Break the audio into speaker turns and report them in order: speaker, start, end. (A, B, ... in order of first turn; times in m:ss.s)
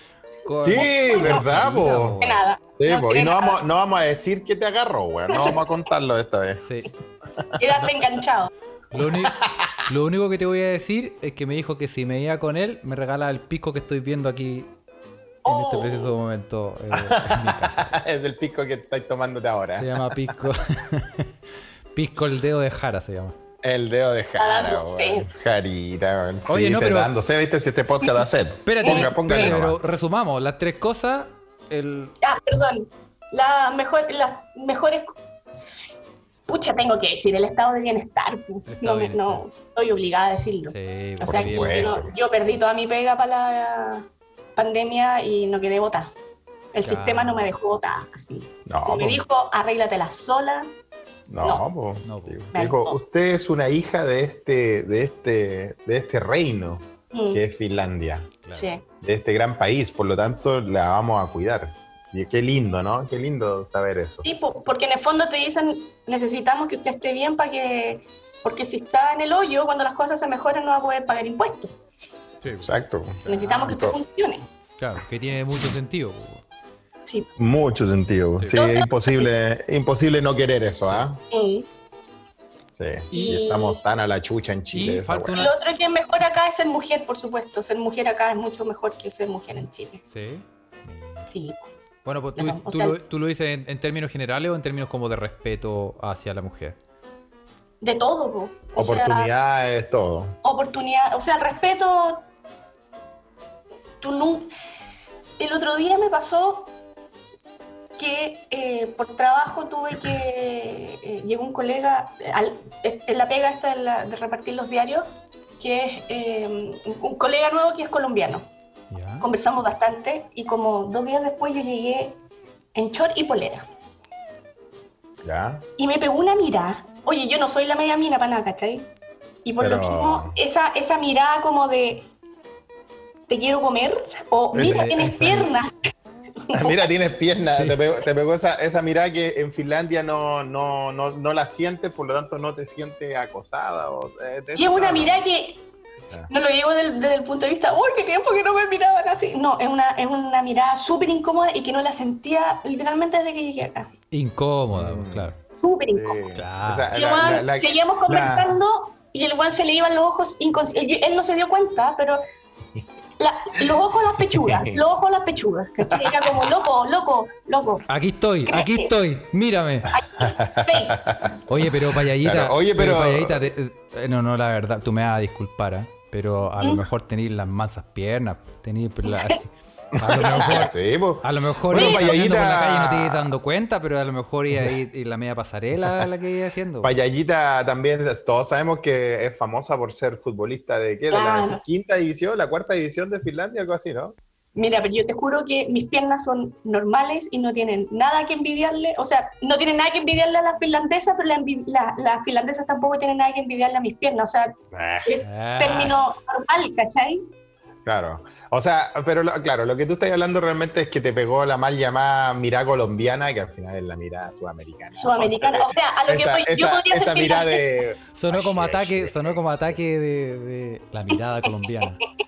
0:00.4-0:02.4 A
0:00.6-0:02.2 B
0:00.7-0:03.6 C
0:02.8-0:06.6 B
0:05.3-0:05.6 C
0:06.6-0:06.9 A
0:07.6-0:08.5 C
0:08.9-0:14.7 A
0:08.9-0:09.8 B
0:15.4-0:16.1 C
0:15.4-0:18.0 A
0:16.9-0:20.0 B
0:19.7-0:21.3 A
0:21.9-0:23.3 A
0:23.6-0:29.8 B
0:24.4-0:25.4 C
0:26.5-0:27.1 A
0:28.6-0:32.1 A
0:28.8-0:29.1 C
0:32.2-0:35.2 C
0:36.5-0:46.1 C
0:38.7-0:39.4 A
0:40.7-0:42.0 A
0:41.2-0:42.1 B
0:46.7-0:50.7 C
0:46.8-0:47.5 A
0:48.6-0:49.2 B
0:51.3-0:58.3 B
0:52.0-0:52.5 A
0:52.5-0:53.0 C
0:57.1-0:57.4 C
0:58.4-0:58.7 A
0:58.5-0:58.8 C
0:59.0-1:04.2 B
1:04.2-1:11.8 C
1:12.4-1:12.7 A
1:12.6-1:14.0 B
1:13.2-1:13.8 A
1:13.3-1:14.5 C
1:14.8-1:16.4 A
1:17.4-1:21.2 B
1:18.5-1:19.3 C
1:21.3-1:21.7 C
1:22.8-1:25.4 B
1:23.1-1:23.8 C
1:24.7-1:25.5 A
1:25.3-1:30.0 C
1:30.1-1:31.3 A
1:31.3-1:31.7 C
1:32.0-1:36.8 A
1:32.4-1:33.0 C
1:37.8-1:39.3 C
1:38.8-1:40.4 B
1:40.4-1:42.2 C
1:44.0-1:44.5 C
1:45.4-1:46.7 C
1:48.0-1:58.5 C
1:58.9-1:59.2 A
1:59.2-2:02.2 C
2:02.7-2:03.6 C
2:05.2-2:05.6 B
2:05.8-2:08.9 C
2:09.4-2:12.1 C
2:09.6-2:10.4 B
2:13.3-2:15.9 C
2:14.5-2:14.9 B
2:14.6-2:15.5 A
2:16.4-2:16.9 C
2:16.5-2:25.2 B
2:24.5-2:25.6 C
2:26.3-2:33.9 C
2:34.1-2:35.3 A
2:34.7-2:35.4 B
2:35.6-2:36.2 C
2:35.9-2:38.5 B
2:36.3-2:36.9 A
2:36.9-2:42.2 C
2:43.2-2:47.9 C
2:44.4-2:44.8 B
2:45.9-2:46.5 B
2:47.9-2:49.9 A
2:48.4-2:48.9 C
2:49.9-2:51.0 C
2:50.2-2:53.5 B
2:51.5-3:06.9 A
2:56.6-2:56.8 C
2:59.9-3:03.3 B
3:01.7-3:02.1 C
3:06.8-3:14.2 B
3:11.1-3:11.6 C
3:14.6-3:27.3 C
3:24.7-3:25.2 B
3:25.2-3:26.2 A
3:27.8-3:39.4 B
3:35.0-3:37.8 C
3:38.1-3:42.0 A